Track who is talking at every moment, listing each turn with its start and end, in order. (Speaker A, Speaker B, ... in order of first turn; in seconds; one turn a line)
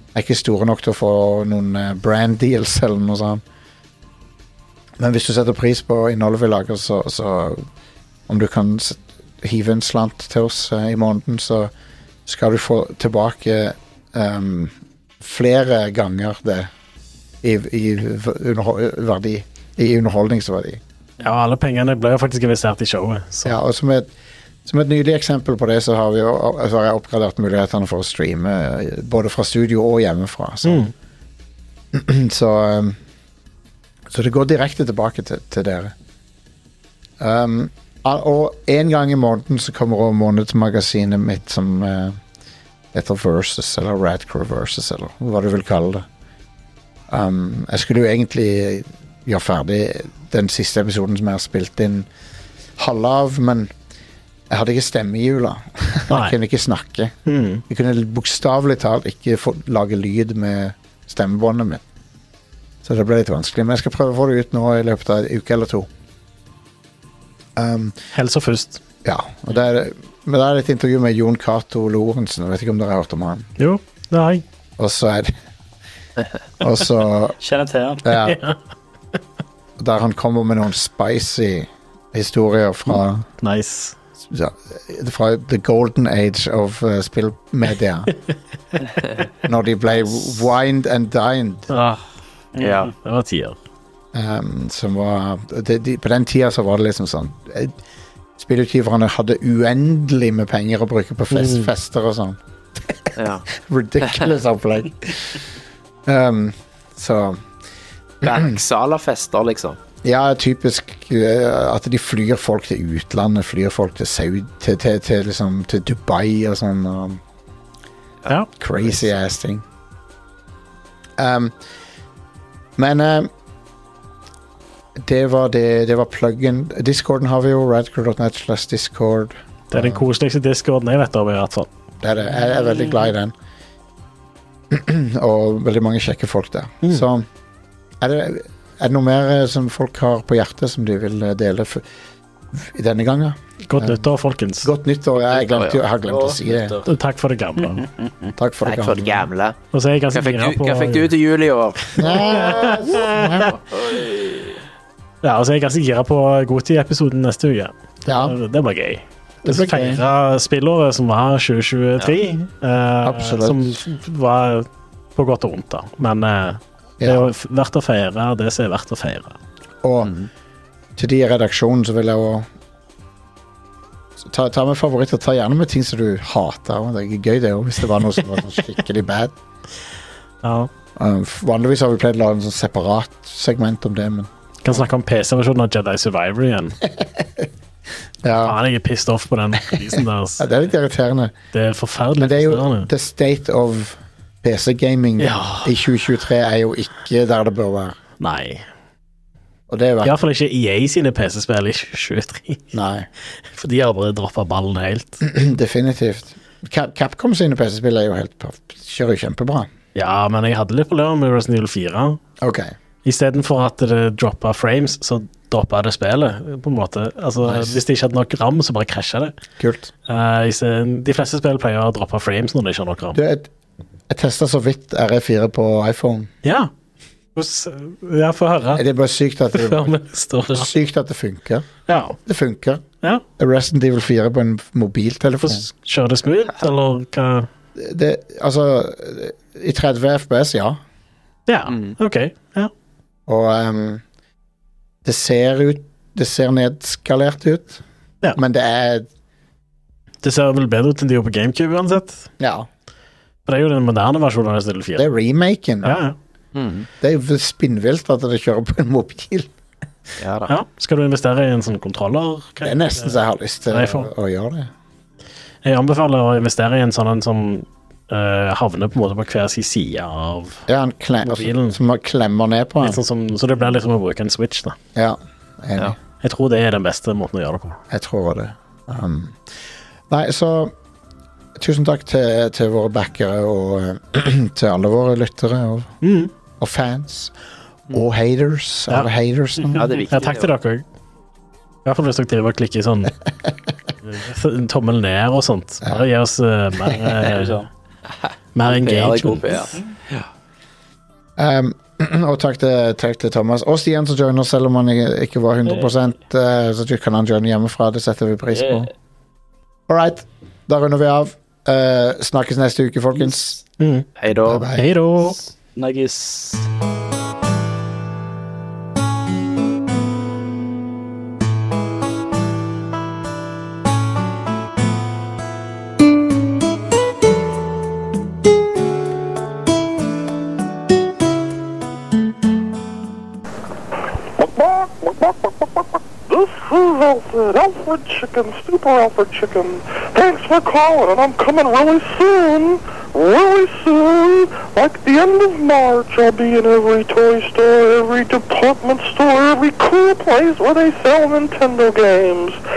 Speaker A: 0.1-3.4
Speaker A: 5.0-7.6
Speaker A: 8.3-11.7
Speaker A: 12.3-16.7
Speaker A: 17.4-20.8
Speaker B: 21.2-23.6
Speaker A: 23.4-24.1
Speaker A: 24.6-30.9
Speaker B: 30.6-30.9
Speaker A: 31.9-33.0
Speaker A: 34.1-35.9
Speaker A: 37.2-42.2
Speaker A: 42.9-46.0
Speaker A: 47.1-52.1
Speaker A: 52.8-53.7
Speaker A: 54.5-61.8
Speaker B: 56.1-56.4
Speaker B: 57.3-57.6
Speaker A: 62.8-65.9
Speaker A: 67.6-68.0
Speaker B: 68.1-68.8
Speaker A: 69.0-73.5
Speaker B: 73.6-74.4
Speaker A: 74.8-75.3
Speaker A: 76.6-77.4
Speaker C: 77.4-78.1
Speaker A: 78.0-78.4
Speaker B: 78.2-78.6
Speaker A: 79.8-83.3
Speaker B: 83.4-84.0
Speaker A: 84.3-88.1
Speaker A: 89.4-91.7
Speaker B: 91.7-92.0
Speaker C: 92.5-92.9
Speaker D: 92.6-92.9
Speaker B: 93.0-93.6
Speaker A: 94.1-97.7
Speaker A: 98.4-105.5
Speaker B: 101.3-101.7
Speaker D: 103.2-103.5
Speaker A: 106.1-107.4
Speaker A: 108.2-108.5
Speaker D: 108.2-109.8
Speaker A: 110.0-117.2
Speaker D: 118.2-119.1
Speaker A: 118.6-119.6
Speaker A: 121.2-121.5
Speaker A: 122.8-123.3
Speaker A: 125.0-130.0
Speaker B: 129.7-131.7
Speaker A: 132.0-133.3
Speaker A: 134.7-137.2
Speaker A: 138.0-141.8
Speaker A: 142.5-144.1
Speaker B: 143.7-144.7
Speaker A: 144.6-146.8
Speaker D: 145.3-145.8
Speaker C: 146.1-146.8
Speaker B: 146.8-147.8
Speaker C: 147.8-148.3
Speaker A: 148.4-149.1
Speaker D: 148.7-149.6
Speaker B: 149.7-151.1
Speaker D: 150.1-152.8
Speaker A: 152.0-153.6
Speaker B: 152.1-153.5
Speaker C: 153.7-154.6
Speaker B: 155.2-169.4
Speaker A: 158.1-158.4
Speaker A: 159.4-160.0
Speaker A: 163.0-163.8
Speaker A: 169.8-170.1
Speaker D: 170.0-170.3
Speaker A: 171.0-172.5
Speaker A: 174.2-179.3
Speaker B: 180.4-180.7
Speaker A: 181.0-184.8
Speaker B: 184.6-186.8
Speaker A: 186.9-187.5
Speaker A: 188.2-188.6
Speaker B: 188.4-190.5
Speaker A: 189.9-191.3
Speaker B: 191.5-192.9
Speaker A: 192.2-198.0
Speaker B: 195.2-195.7
Speaker B: 198.2-198.6
Speaker A: 199.7-200.1
Speaker B: 200.0-202.7
Speaker A: 202.7-203.1
Speaker B: 203.4-205.2
Speaker A: 205.2-209.7
Speaker B: 209.9-212.2
Speaker A: 212.4-212.7
Speaker B: 213.0-219.3
Speaker A: 217.4-217.8
Speaker A: 219.6-219.9
Speaker B: 220.1-223.2
Speaker A: 223.1-223.5
Speaker A: 224.1-226.3
Speaker B: 226.4-226.7
Speaker B: 227.3-228.8
Speaker A: 228.8-230.0
Speaker B: 229.5-230.7
Speaker A: 230.5-232.8
Speaker B: 231.9-232.2
Speaker A: 233.4-235.7
Speaker B: 235.4-237.5
Speaker A: 237.8-240.8
Speaker B: 241.5-242.7
Speaker D: 241.7-241.9
Speaker A: 243.3-244.0
Speaker A: 245.0-247.8
Speaker A: 248.3-249.1
Speaker B: 250.2-252.3
Speaker A: 252.4-252.7
Speaker B: 253.5-255.1
Speaker A: 255.0-256.0
Speaker B: 255.8-256.2
Speaker D: 256.5-256.9
Speaker A: 257.0-259.5
Speaker D: 260.2-260.5
Speaker B: 260.5-263.2
Speaker A: 262.6-264.7
Speaker B: 263.7-264.1
Speaker B: 265.6-270.7
Speaker A: 270.7-273.0
Speaker B: 271.2-271.8
Speaker B: 272.8-274.8
Speaker A: 274.9-276.0
Speaker B: 276.2-277.8
Speaker A: 277.9-279.4
Speaker A: 280.1-280.8
Speaker A: 281.6-285.9
Speaker B: 286.0-286.3
Speaker A: 286.6-287.3
Speaker A: 287.9-289.9
Speaker D: 289.8-290.5
Speaker B: 290.1-290.9
Speaker B: 291.9-293.1
Speaker B: 294.0-297.6
Speaker C: 297.3-297.7
Speaker B: 298.6-299.5
Speaker D: 298.7-300.3
Speaker A: 301.4-308.9
Speaker C: 308.5-308.9
Speaker A: 309.9-313.6
Speaker B: 313.8-314.1
Speaker D: 314.2-314.7
Speaker A: 314.5-314.9
Speaker B: 314.7-315.4
Speaker C: 315.8-316.7
Speaker E: 334.3-352.6